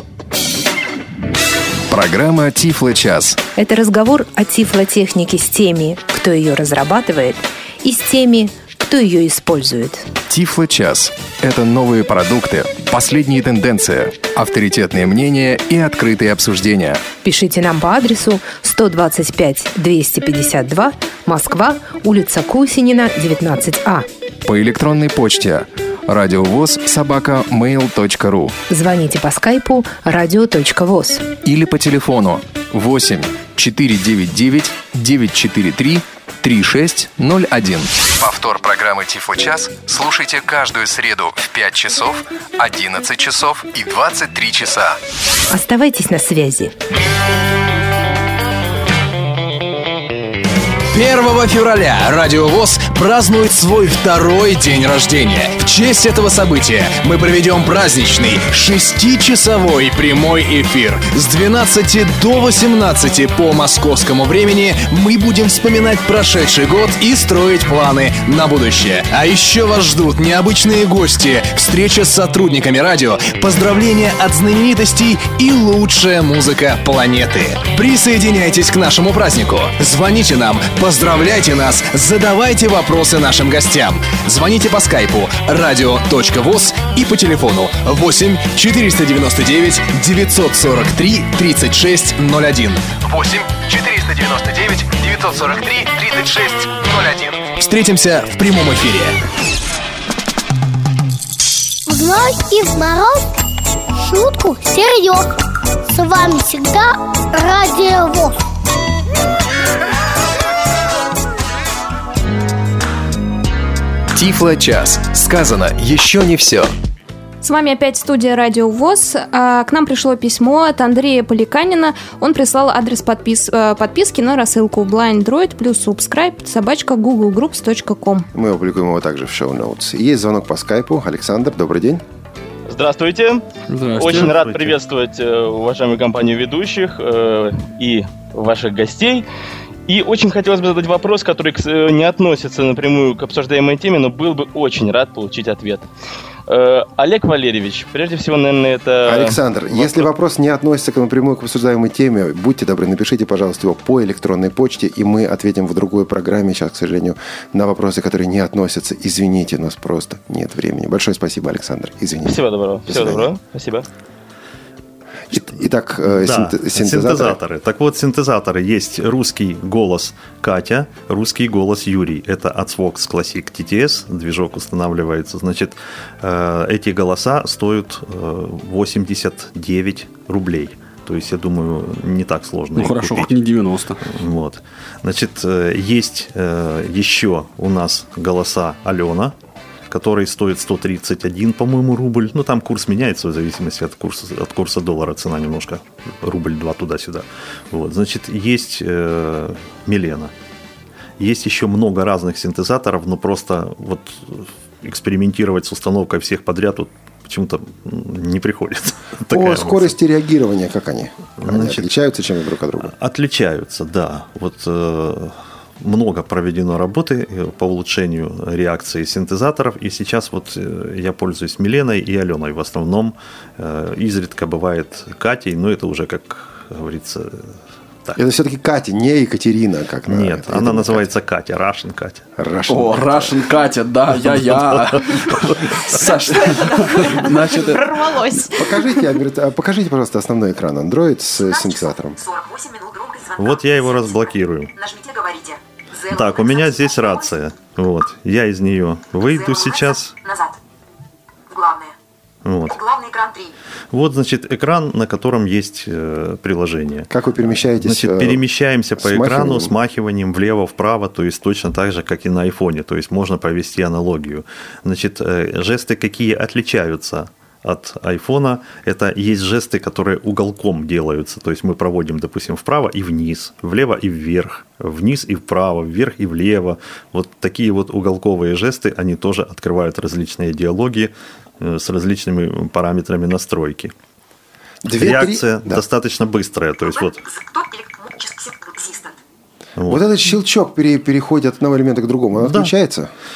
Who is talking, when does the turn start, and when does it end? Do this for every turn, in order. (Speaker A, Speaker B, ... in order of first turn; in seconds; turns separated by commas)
Speaker A: 1.9-3.4, Speaker B: 3.6-10.1, Speaker A: 10.3-17.1, Speaker B: 17.2-24.1, Speaker A: 24.5-28.6, Speaker B: 28.7-31.3, Speaker A: 31.4-45.0, Speaker B: 45.5-46.7, Speaker C: 50.9-99.2, Speaker D: 101.9-103.2, Speaker D: 104.0-105.3, Speaker D: 105.9-108.3, Speaker A: 114.2-116.7, Speaker E: 117.4-128.3, Speaker F: 128.3-132.0, Speaker G: 132.7-133.4, Speaker H: 133.7-134.7, Speaker G: 134.0-139.2, Speaker I: 134.0-134.7, Speaker G: 139.9-145.8, Speaker G: 146.5-150.1, Speaker F: 149.1-163.3, Speaker G: 162.2-163.8, Speaker F: 165.3-167.4, Speaker I: 166.1-183.3, Speaker H: 182.8-184.0, Speaker I: 184.0-189.3, Speaker I: 189.9-200.3, Speaker I: 201.2-209.9, Speaker F: 209.3-212.9, Speaker I: 211.4-211.9, Speaker I: 212.8-228.2, Speaker F: 228.2-231.1, Speaker I: 230.1-232.2, Speaker F: 232.4-233.4, Speaker H: 232.7-238.2, Speaker E: 235.9-239.0, Speaker F: 238.5-242.2, Speaker J: 241.4-247.4, Speaker I: 243.4-244.7, Speaker I: 246.1-250.2, Speaker J: 249.2-250.6, Speaker J: 251.5-251.9, Speaker I: 252.4-252.8, Speaker J: 252.7-253.5, Speaker I: 253.9-283.9, Speaker F: 257.1-258.4, Speaker F: 259.0-259.7, Speaker F: 284.9-285.8, Speaker I: 284.9-287.2, Speaker J: 286.8-289.2, Speaker F: 289.9-293.1, Speaker I: 292.4-292.7